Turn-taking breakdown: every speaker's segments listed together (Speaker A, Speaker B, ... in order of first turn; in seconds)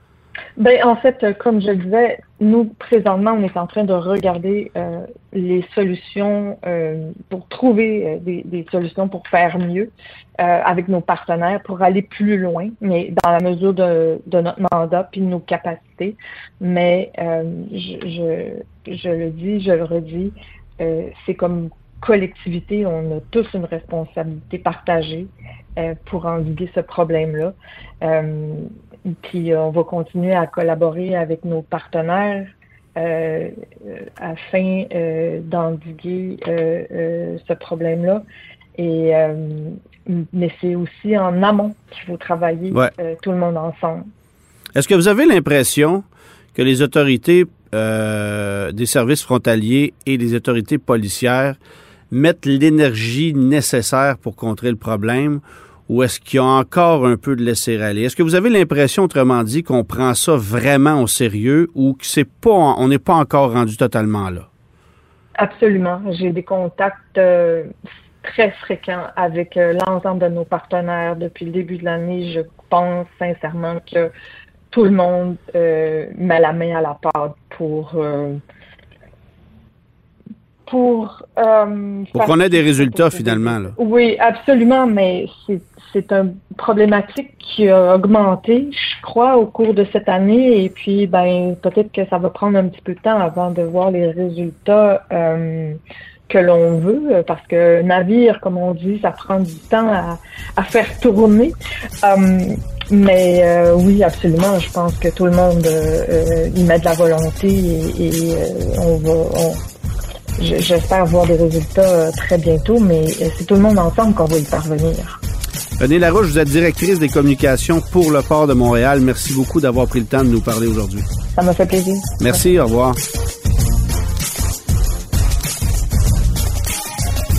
Speaker A: 0.6-38.2, 38.8-44.1, 65.4-67.7, 68.2-74.1, 74.7-78.4, 80.7-109.6, 110.4-115.2, 121.3-122.4
Speaker B: 44.8-51.6, 52.1-64.5, 82.1-83.8, 115.8-121.1, 122.2-123.0